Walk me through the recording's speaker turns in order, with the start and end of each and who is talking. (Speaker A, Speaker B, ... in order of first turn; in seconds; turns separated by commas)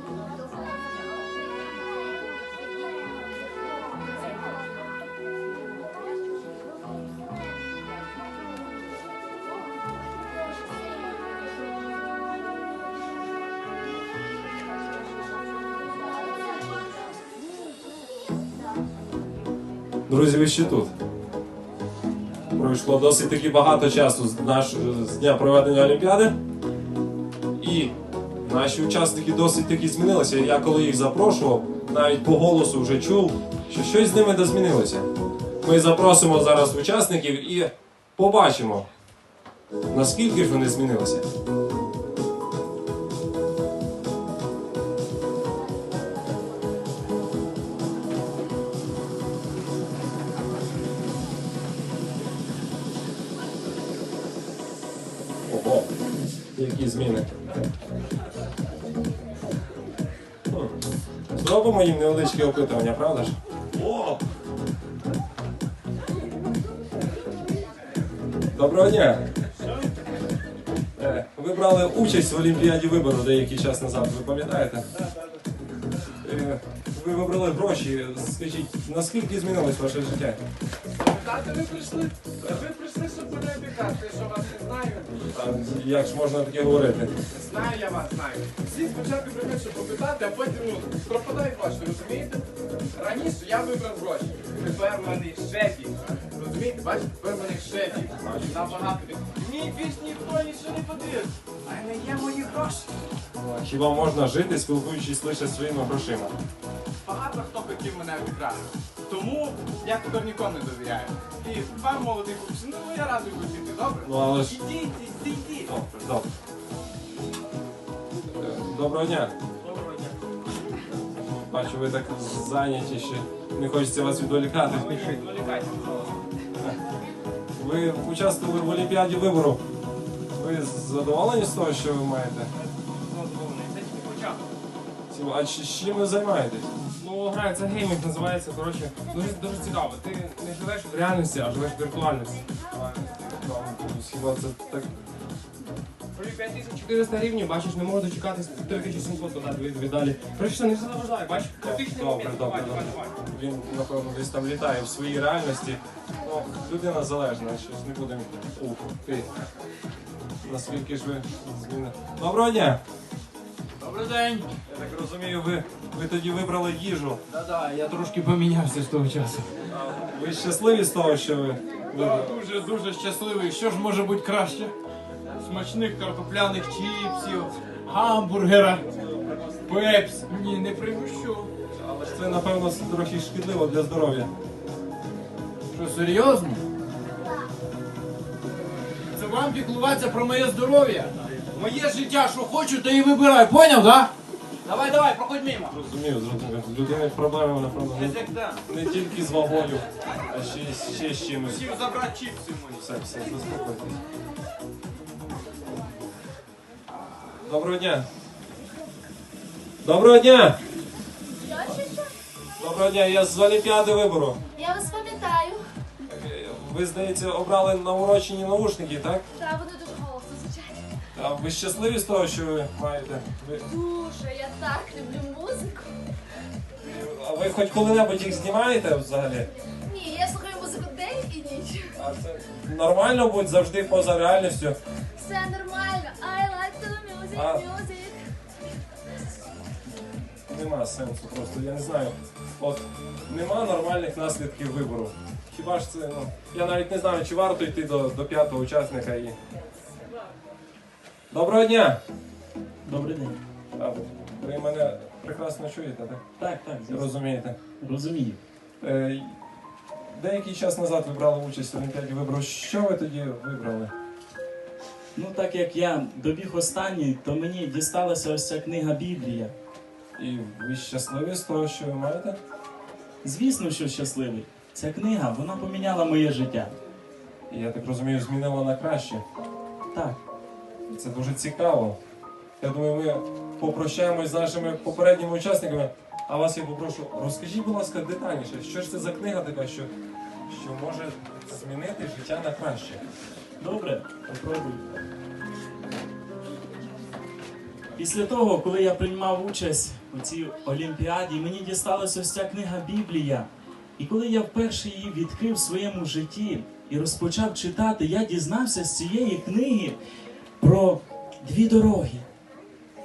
Speaker A: 20.1-20.9, Speaker A: 22.5-26.4, Speaker A: 27.6-35.1, Speaker A: 35.6-38.9, Speaker A: 39.9-41.2, Speaker A: 55.5-55.9, Speaker A: 56.5-57.3, Speaker A: 61.4-64.2, Speaker A: 68.5-69.2, Speaker A: 71.0-74.8, Speaker A: 76.2-80.4, Speaker B: 81.0-85.1, Speaker A: 85.3-87.1, Speaker B: 87.3-102.9, Speaker A: 98.2-98.9, Speaker A: 103.4-106.3, Speaker B: 107.0-115.7, Speaker A: 114.0-114.6, Speaker A: 115.7-116.3, Speaker A: 118.3-119.3, Speaker A: 121.2-125.2, Speaker A: 127.5-129.6, Speaker A: 130.3-132.5, Speaker C: 133.1-134.2, Speaker A: 135.1-136.7, Speaker C: 136.9-142.4, Speaker A: 142.7-144.9, Speaker C: 146.2-152.9, Speaker A: 151.6-159.2, Speaker A: 160.4-162.8, Speaker D: 163.8-164.5, Speaker A: 164.7-167.2, Speaker D: 167.3-169.5, Speaker A: 169.7-172.3, Speaker D: 171.9-174.7, Speaker D: 175.4-178.8, Speaker D: 179.6-181.5, Speaker A: 181.8-184.3, Speaker D: 185.7-186.6, Speaker D: 189.1-194.1, Speaker D: 194.6-195.7, Speaker A: 195.7-201.7, Speaker D: 197.9-198.6, Speaker D: 201.6-202.7, Speaker A: 202.7-204.0, Speaker A: 207.4-208.1, Speaker A: 209.8-210.6, Speaker E: 211.4-212.1, Speaker A: 212.6-214.4, Speaker E: 214.6-215.6, Speaker A: 216.1-219.2, Speaker E: 219.3-220.9, Speaker A: 221.2-223.6, Speaker E: 223.6-225.9, Speaker A: 226.8-229.5, Speaker E: 229.8-231.9, Speaker A: 231.9-234.8, Speaker E: 235.2-238.2, Speaker A: 237.3-237.6, Speaker A: 240.5-249.4, Speaker A: 251.3-252.0, Speaker F: 252.8-253.4, Speaker A: 253.8-256.2, Speaker F: 256.4-257.1, Speaker A: 256.9-257.6, Speaker F: 257.8-258.4, Speaker A: 258.8-259.3, Speaker A: 260.1-263.9, Speaker F: 265.1-269.5, Speaker A: 270.2-272.4, Speaker F: 273.2-276.7, Speaker A: 277.5-279.2, Speaker F: 279.9-280.2, Speaker A: 280.9-282.0, Speaker A: 282.6-289.9, Speaker A: 290.5-293.0, Speaker F: 293.6-294.8, Speaker F: 297.9-309.9, Speaker F: 310.6-312.2